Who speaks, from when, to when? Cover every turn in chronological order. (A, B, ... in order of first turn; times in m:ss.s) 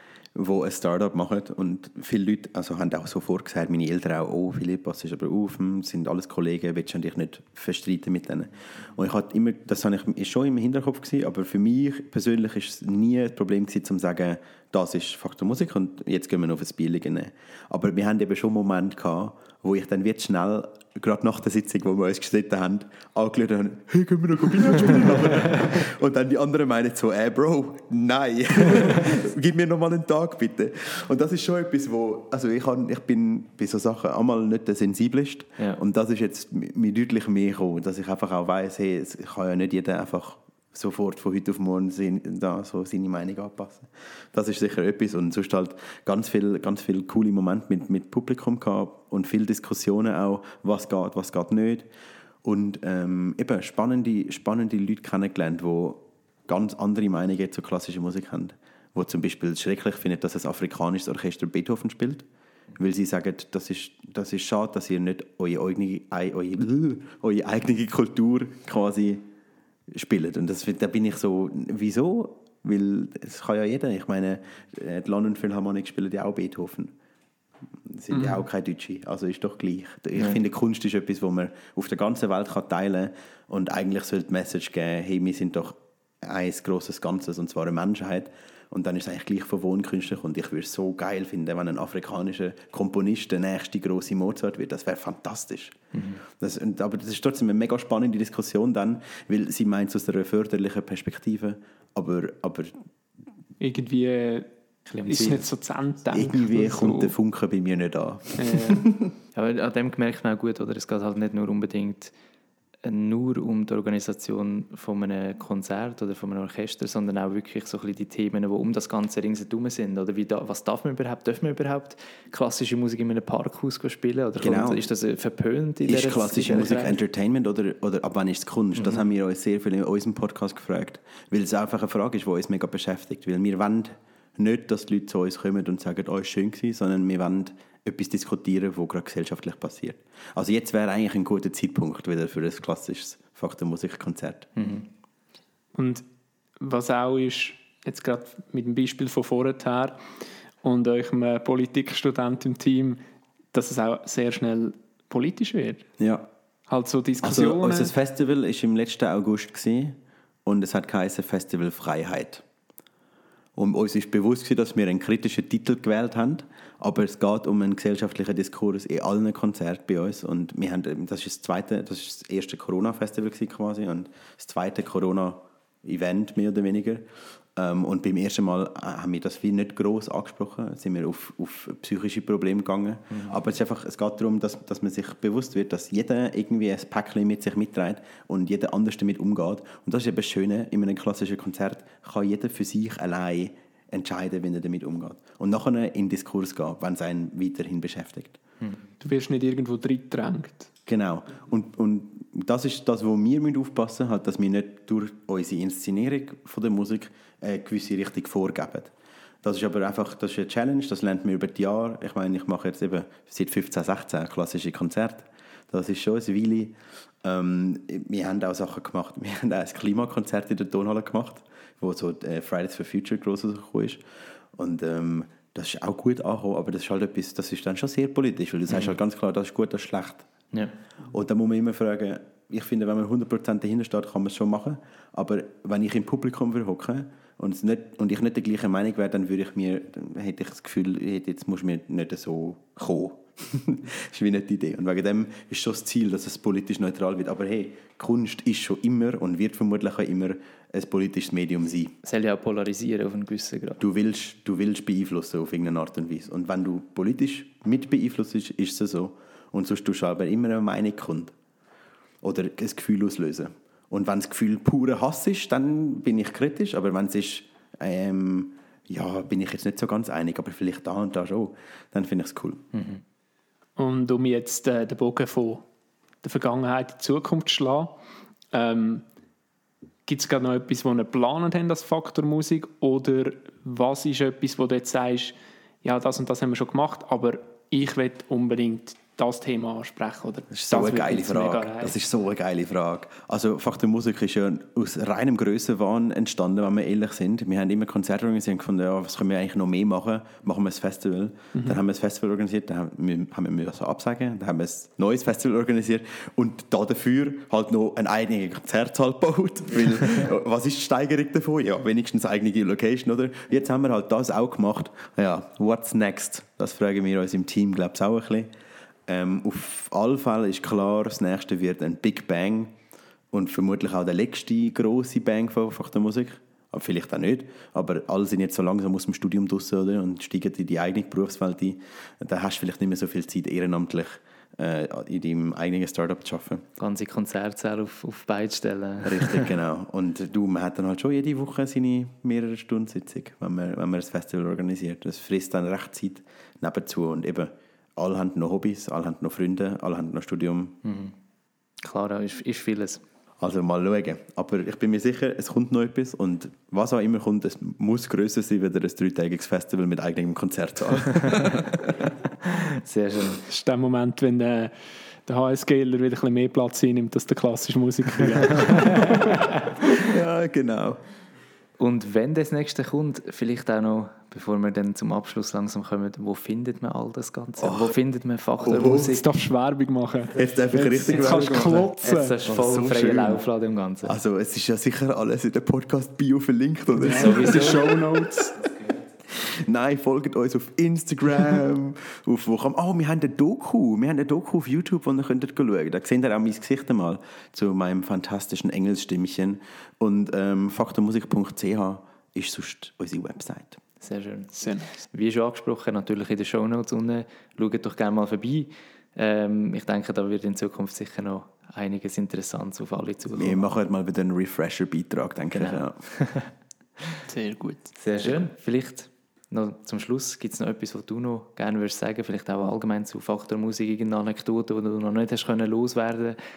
0:00.4-0:51.9 A
0:52.4-1:02.2 A
1:02.8-1:09.2 A
1:09.9-1:16.9 A
1:17.8-1:42.8 A
1:18.1-1:18.4 B
1:35.9-1:36.2 C
1:43.6-1:44.5 B
1:44.9-1:45.4 C
1:45.1-1:47.2 B
1:46.1-1:49.1 A
1:48.4-1:48.9 B
1:49.4-1:52.1 C
1:52.8-2:07.0 C
2:04.4-2:04.8 A
2:05.9-2:24.5 A
2:08.8-2:09.0 C
2:24.6-2:24.8 C
2:25.8-2:26.0 B
2:26.6-2:30.0 B
2:30.6-2:33.0 B
2:33.5-2:35.9 B
2:36.0-2:36.3 A
2:36.7-2:37.9 B
2:37.2-2:42.4 A
2:43.6-3:18.4 A
3:19.0-3:20.7 B
3:20.9-3:44.0 A
3:44.6-3:50.3 A
3:51.1-4:11.9 A
4:12.0-4:13.8 C
4:13.8-4:21.3 A
4:22.2-4:32.6 A
4:32.7-4:33.0 C
4:33.8-4:35.7 B
4:36.2-4:38.0 B
4:38.5-4:39.0 B
4:40.1-4:52.0 B
4:50.5-5:18.5 A
5:19.1-5:22.8 A
5:23.3-5:36.7 A
5:36.8-5:39.5 C
5:39.0-5:50.8 A
5:50.8-5:51.1 C
5:51.8-5:53.0 C
5:53.4-6:02.1 A
6:02.4-6:03.4 C
6:03.5-6:04.7 B
6:05.3-6:09.5 B
6:08.8-6:09.7 C
6:10.0-6:11.0 A
6:11.8-6:19.2 C
6:17.6-6:18.0 A
6:18.6-6:19.2 A
6:19.0-6:22.4 B
6:20.4-6:21.9 A
6:21.3-6:24.2 C
6:22.4-6:23.4 A
6:24.0-6:28.0 A
6:27.0-6:28.6 B
6:27.1-6:28.0 C
6:29.3-6:43.8 A
6:44.0-6:53.7 C
6:44.6-6:45.0 B
6:53.4-6:56.0 A
6:55.5-6:56.5 C
6:57.3-6:58.0 B
6:58.0-7:06.4 C